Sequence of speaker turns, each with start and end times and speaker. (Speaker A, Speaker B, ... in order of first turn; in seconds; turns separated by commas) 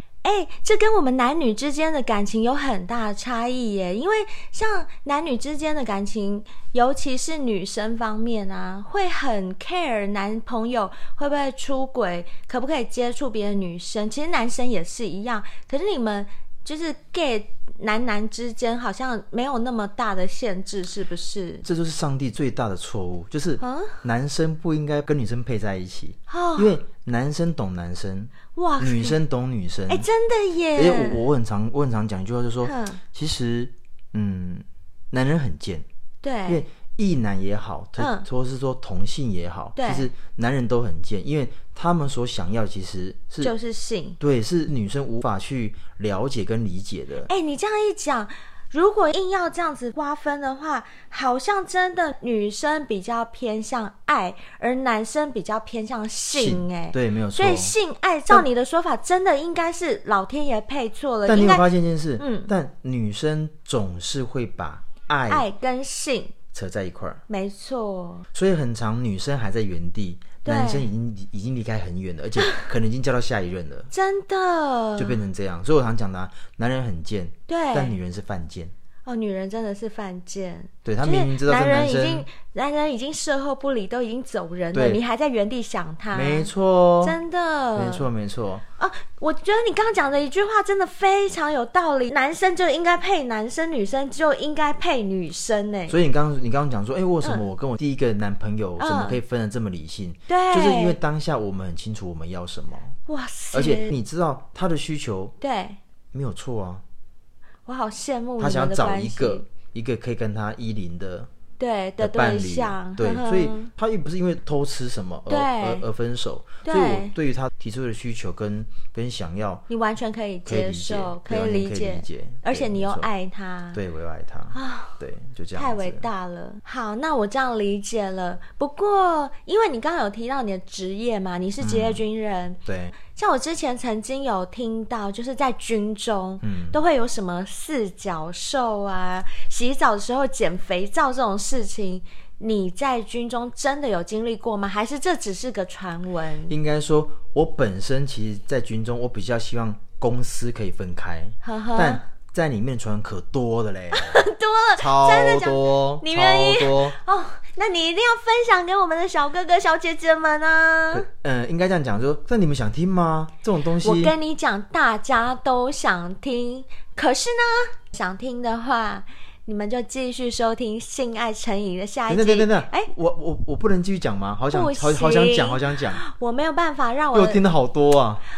Speaker A: 0.2-21.6, Speaker B: 21.6-30.1, Speaker A: 23.6-24.0, Speaker A: 26.3-26.7, Speaker A: 28.5-29.2, Speaker A: 29.9-31.2, Speaker B: 30.7-35.8, Speaker A: 32.6-33.0, Speaker A: 36.2-36.6, Speaker B: 36.5-43.5, Speaker A: 38.0-38.3, Speaker A: 39.8-40.1, Speaker A: 43.4-44.2, Speaker B: 44.2-47.3, Speaker A: 47.3-61.6, Speaker B: 56.3-57.7, Speaker B: 61.2-65.5, Speaker A: 62.2-62.5, Speaker A: 65.3-66.3, Speaker B: 66.5-67.2, Speaker A: 67.3-68.2, Speaker B: 68.3-73.9, Speaker A: 70.4-70.9, Speaker A: 73.9-75.2, Speaker B: 75.0-78.7, Speaker A: 77.5-77.9, Speaker A: 79.0-86.5, Speaker B: 80.8-82.3, Speaker B: 84.7-85.0, Speaker B: 86.1-87.2, Speaker A: 87.0-88.1, Speaker B: 87.7-88.6, Speaker A: 88.8-96.0, Speaker B: 95.9-102.9, Speaker A: 98.8-99.2, Speaker A: 100.3-101.0, Speaker A: 103.1-103.9, Speaker B: 103.5-105.3, Speaker A: 105.4-105.8, Speaker B: 106.1-106.8, Speaker A: 107.7-109.5, Speaker B: 108.4-111.3, Speaker A: 111.6-113.7, Speaker B: 112.0-119.6, Speaker A: 115.3-115.8, Speaker A: 116.6-117.1, Speaker A: 119.7-123.8, Speaker B: 120.4-123.1, Speaker B: 123.7-126.1, Speaker A: 124.5-125.0, Speaker A: 125.5-146.5, Speaker B: 131.6-132.0, Speaker B: 132.7-132.9, Speaker B: 136.4-136.8, Speaker B: 146.5-154.2, Speaker A: 151.4-152.0, Speaker A: 153.9-161.1, Speaker B: 154.8-156.9, Speaker B: 160.9-164.1, Speaker A: 163.8-172.9, Speaker B: 172.1-176.0, Speaker A: 174.5-177.4, Speaker B: 177.1-178.2